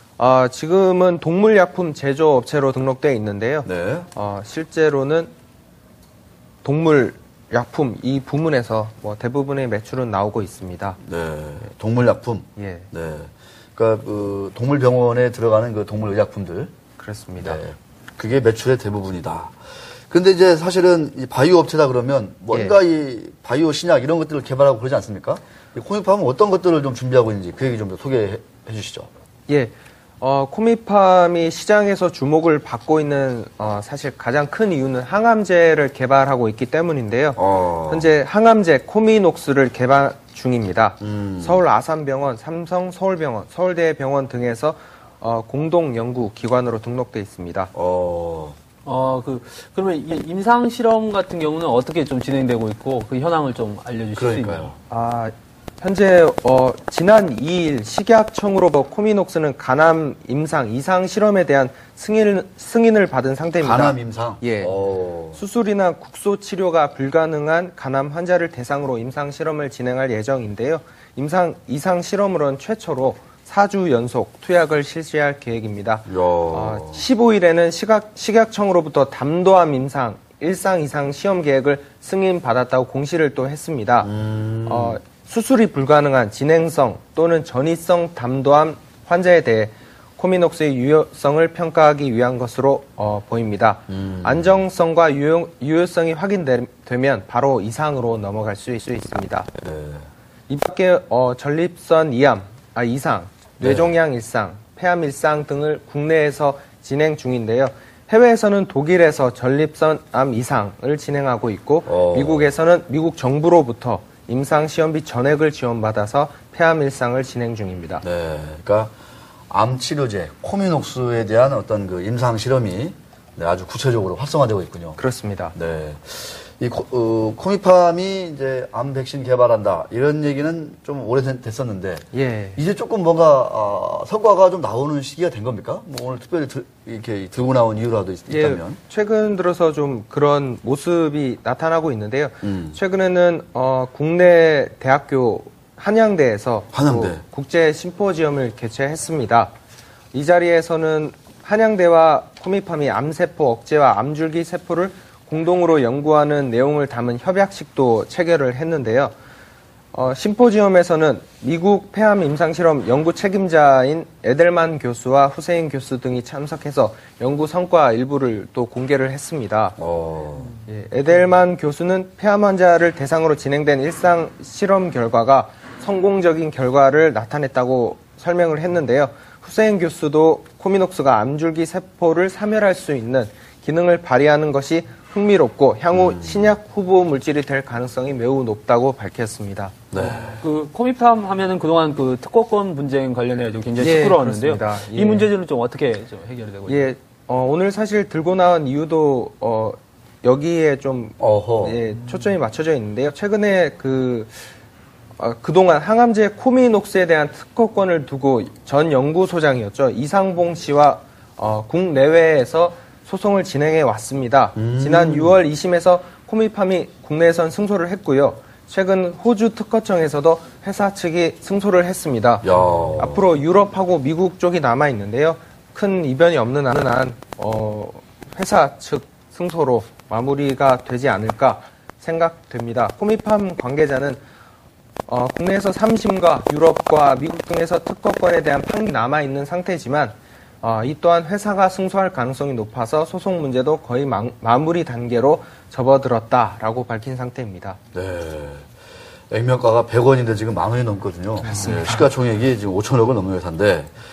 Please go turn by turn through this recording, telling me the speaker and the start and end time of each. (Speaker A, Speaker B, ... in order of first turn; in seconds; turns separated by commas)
Speaker A: 0.2-5.3, Speaker B: 3.6-4.1, Speaker A: 6.6-11.0, Speaker B: 11.0-16.7, Speaker A: 12.6-12.9, Speaker A: 17.0-17.6, Speaker B: 17.4-19.6, Speaker B: 20.1-29.1, Speaker A: 22.5-22.8, Speaker A: 29.5-47.7, Speaker B: 37.4-38.1, Speaker B: 41.0-41.6, Speaker B: 47.7-48.6, Speaker C: 48.9-54.7, Speaker B: 54.2-54.8, Speaker A: 54.9-64.8, Speaker B: 63.6-65.4, Speaker A: 65.3-84.1, Speaker B: 76.1-77.0, Speaker B: 84.0-85.0, Speaker A: 84.7-99.5, Speaker B: 93.9-94.6, Speaker B: 99.6-100.1, Speaker A: 100.5-118.0, Speaker B: 103.6-103.9, Speaker B: 111.9-112.5, Speaker B: 118.0-118.9, Speaker B: 119.5-125.0, Speaker A: 125.0-125.5, Speaker B: 125.5-132.0, Speaker A: 132.1-132.6, Speaker B: 132.6-138.8, Speaker A: 138.3-149.5, Speaker B: 142.4-142.8, Speaker B: 146.7-147.2, Speaker A: 150.1-159.1, Speaker A: 159.9-169.8, Speaker B: 169.8-170.5, Speaker A: 170.7-189.8, Speaker B: 185.9-186.6, Speaker B: 189.9-190.4, Speaker C: 190.4-196.9, Speaker A: 193.8-195.3, Speaker A: 196.7-204.5, Speaker B: 201.2-201.8, Speaker A: 205.2-234.2, Speaker B: 214.6-215.4, Speaker B: 222.4-223.2, Speaker A: 235.1-247.8, Speaker B: 247.9-248.7, Speaker B: 249.3-253.9, Speaker A: 251.4-252.1